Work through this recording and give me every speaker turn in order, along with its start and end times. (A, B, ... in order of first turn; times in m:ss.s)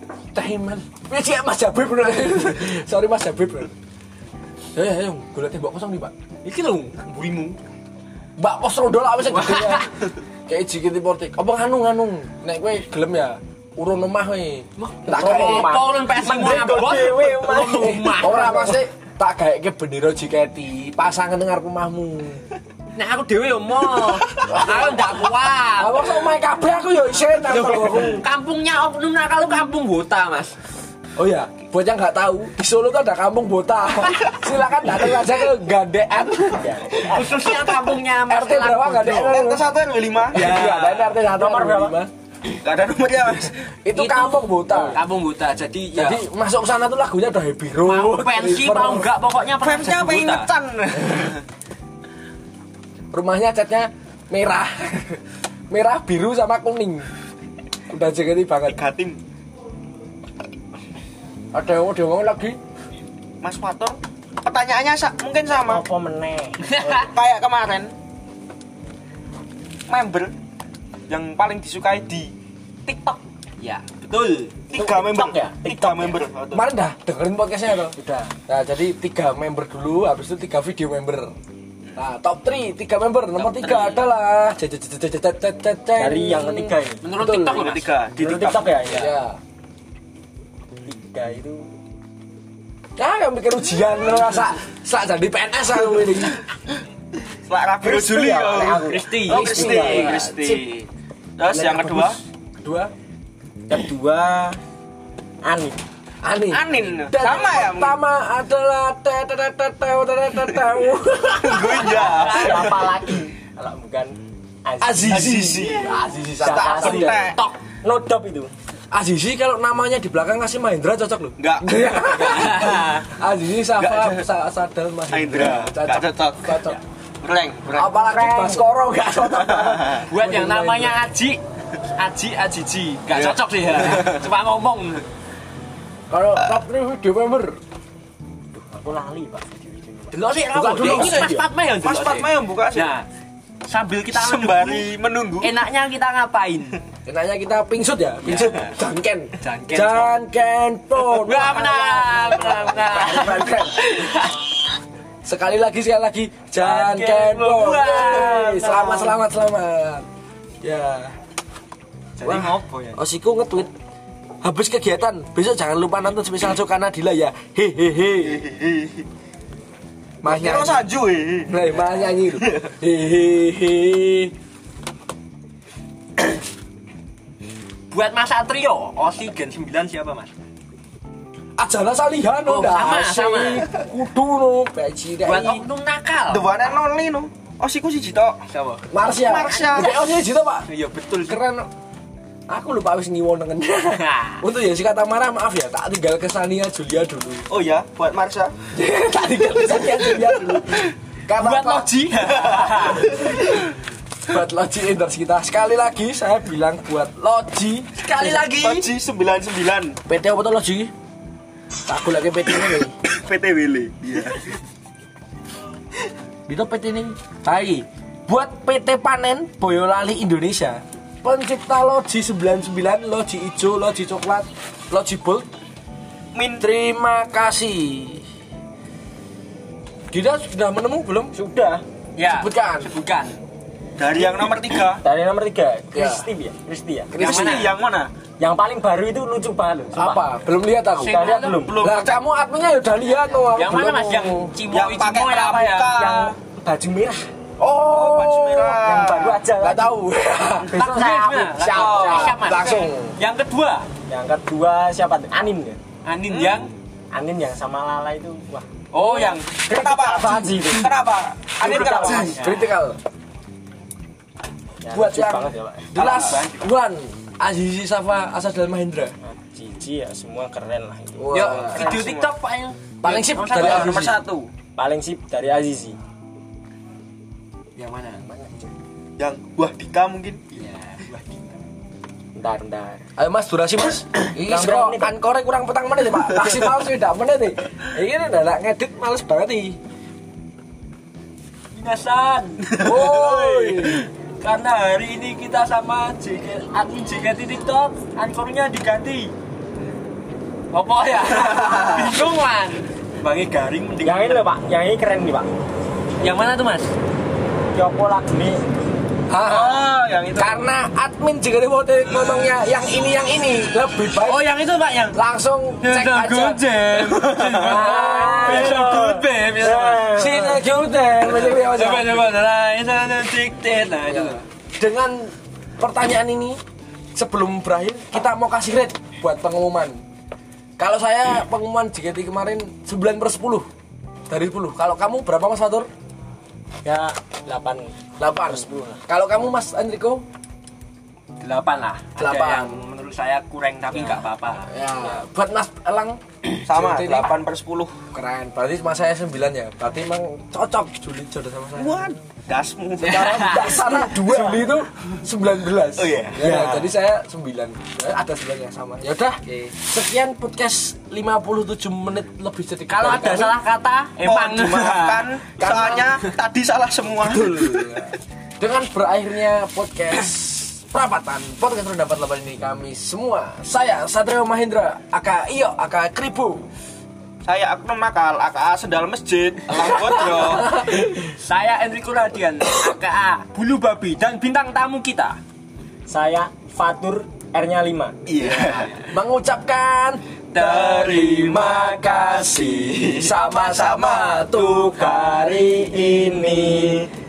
0:00.3-0:03.7 A
0:04.7-0:06.1 A
0:06.4-0:07.6 B
0:08.4-0:09.9 A
0:09.3-0:09.9 B
0:10.4-0:15.8 A
0:14.8-0:18.7 B
0:15.1-0:18.7 C
0:17.8-0:22.5 A
0:23.0-0:26.1 B
0:24.3-0:25.1 A
0:25.8-0:28.2 A
0:27.5-0:28.2 C
0:27.5-0:30.5 B
0:31.2-0:37.3 A
0:36.6-0:37.3 C
0:37.0-0:39.4 B
0:38.3-0:39.7 A
0:39.0-0:40.8 D
0:40.3-0:42.1 A
0:40.3-0:41.1 B
0:41.3-0:42.0 C
0:42.6-0:43.6 D
0:43.8-0:45.0 A
0:43.9-0:46.2 B
0:45.9-0:49.1 A
0:47.8-0:50.5 B
0:49.6-0:51.4 D
0:53.1-0:57.1 A
0:57.9-0:58.8 A
0:58.7-0:59.2 D
1:01.5-1:02.6 A
1:03.4-1:05.8 D
1:05.6-1:07.1 C
1:06.6-1:07.0 B
1:06.9-1:07.9 D
1:09.9-1:10.3 D
1:11.1-1:12.3 D
1:12.9-1:13.2 C
1:13.6-1:14.6 B
1:14.7-1:16.7 D
1:14.7-1:16.2 C
1:16.5-1:18.0 A
1:18.0-1:18.3 C
1:18.5-1:21.3 A
1:22.0-1:27.7 A
1:23.4-1:24.0 D
1:26.0-1:27.0 C
1:27.0-1:28.0 B
1:27.5-1:28.9 D
1:28.2-1:29.1 C
1:28.8-1:29.4 A
1:30.8-1:31.7 C
1:33.0-1:36.4 A
1:37.5-1:42.2 D
1:37.8-1:40.2 C
1:38.6-1:39.8 B
1:39.3-1:40.6 A
1:41.5-1:42.9 A
1:43.7-1:44.6 C
1:45.4-1:45.8 C
1:46.2-1:52.2 A
1:46.5-1:48.0 D
1:51.4-1:53.0 D
1:51.9-1:52.8 B
1:52.0-1:55.4 C
1:54.8-1:57.3 A
1:55.1-1:57.4 D
1:56.4-1:57.3 C
1:56.7-1:57.6 B
1:57.8-1:58.5 C
1:58.9-2:06.8 A
2:01.4-2:01.8 D
2:02.2-2:03.0 B
2:03.8-2:04.2 D
2:05.1-2:06.6 D
2:07.2-2:08.0 D
2:07.7-2:11.1 A
2:08.0-2:08.6 C
2:09.3-2:10.0 D
2:10.1-2:15.0 B
2:13.1-2:14.2 D
2:16.1-2:17.6 A
2:18.5-2:20.2 C
2:20.1-2:23.0 B
2:20.5-2:21.4 A
2:20.8-2:22.9 D
2:23.7-2:24.9 B
2:24.1-2:25.5 D
2:25.4-2:26.8 B
2:27.0-2:33.9 A
2:28.3-2:28.6 B
2:29.4-2:30.1 B
2:31.0-2:34.4 B
2:35.2-2:40.1 A
2:36.6-2:39.1 B
2:40.6-2:41.1 A
2:42.2-2:43.0 B
2:42.2-2:43.7 A
2:44.4-2:48.4 A
2:48.3-2:49.0 D
2:50.2-2:50.8 A
2:50.2-2:51.7 D
2:51.5-2:54.3 A
2:52.3-2:52.6 D
2:57.9-3:00.3 B
3:01.6-3:05.6 A
3:02.4-3:03.6 B
3:05.2-3:06.5 B
3:06.3-3:08.4 D
3:08.5-3:08.8 B
3:08.9-3:10.7 A
3:09.1-3:10.0 D
3:09.7-3:10.0 B
3:10.7-3:11.4 B
3:11.2-3:11.7 A
3:12.5-3:17.4 A
3:13.9-3:14.4 B
3:17.5-3:18.5 D
3:18.7-3:21.9 A
3:21.4-3:23.1 B
3:22.3-3:23.5 D
3:24.2-3:28.4 A
3:28.0-3:28.9 B
3:28.6-3:30.0 D
3:30.1-3:30.9 A
3:31.8-3:32.9 A
3:33.0-3:34.6 D
3:36.5-3:45.5 A
3:46.3-3:46.6 D
3:46.6-3:48.2 A
3:50.1-3:51.3 A
3:51.3-3:51.8 C
3:52.2-3:53.4 B
3:52.2-3:52.9 A
3:54.0-3:55.0 D
3:55.0-3:57.1 C
3:55.9-3:56.3 A
3:57.1-3:57.8 B
3:57.2-3:58.1 D
3:57.2-3:57.6 A
3:58.4-4:00.2 C
3:59.9-4:04.5 A
4:01.0-4:01.6 B
4:01.0-4:01.8 C
4:01.6-4:02.1 D
4:03.5-4:06.2 B
4:04.7-4:06.3 D
4:06.0-4:07.3 C
4:07.6-4:08.9 A
4:07.8-4:09.4 D
4:08.8-4:09.9 C
4:09.6-4:10.8 A
4:10.6-4:12.4 C
4:10.7-4:13.9 B
4:11.6-4:12.6 D
4:11.8-4:13.1 A
4:14.1-4:15.8 C
4:16.0-4:16.7 B
4:16.3-4:16.7 D
4:17.1-4:20.9 C
4:18.9-4:19.5 B
4:19.6-4:22.4 D
4:21.6-4:22.4 C
4:21.6-4:23.0 A
4:21.6-4:22.6 B
4:24.8-4:25.9 C
4:24.9-4:29.2 A
4:25.9-4:26.6 B
4:26.0-4:26.3 D
4:29.2-4:31.8 C
4:31.2-4:31.8 A
4:31.3-4:34.1 B
4:31.6-4:32.3 D
4:33.0-4:34.2 A
4:33.0-4:34.5 D
4:34.8-4:36.0 C
4:37.8-4:38.2 B
4:38.2-4:38.7 C
4:39.2-4:40.4 D
4:40.5-4:41.6 B
4:42.4-4:43.0 C
4:43.2-4:49.8 A
4:44.4-4:45.1 C
4:51.7-4:59.3 B
4:52.8-4:54.1 A
5:00.7-5:04.5 B
5:01.4-5:02.1 D
5:04.0-5:05.5 C
5:06.2-5:06.9 B
5:07.7-5:08.8 C
5:09.3-5:14.5 A
5:09.4-5:10.6 D
5:14.2-5:15.2 B
5:15.1-5:16.8 A
5:15.8-5:20.5 B
5:17.1-5:17.8 D
5:17.6-5:20.6 C
5:17.6-5:18.8 A
5:20.1-5:22.4 A
5:21.2-5:24.4 B
5:24.1-5:26.6 A
5:27.1-5:30.0 A
5:30.8-5:33.6 A
5:34.3-5:35.9 A
5:36.8-5:39.0 C
5:38.2-5:40.2 A
5:41.4-5:44.7 B
5:42.2-5:42.8 A
5:43.9-5:47.3 A
5:46.6-5:47.9 D
5:48.1-5:52.2 A
5:51.8-5:53.5 D
5:53.0-5:53.7 B
5:53.0-6:03.6 A
5:53.7-5:54.6 C
5:56.0-5:56.9 D
6:02.9-6:06.3 B
6:04.2-6:07.9 D
6:05.6-6:06.1 A
6:07.2-6:16.7 A
6:17.4-6:20.8 D
6:20.5-6:21.0 A
6:20.7-6:25.4 B
6:26.1-6:28.2 C
6:28.2-6:29.0 D
6:28.4-6:29.0 B
6:29.1-6:35.8 A
6:30.6-6:34.5 D
6:30.6-6:31.0 B
6:34.6-6:37.1 C
6:36.3-6:36.9 D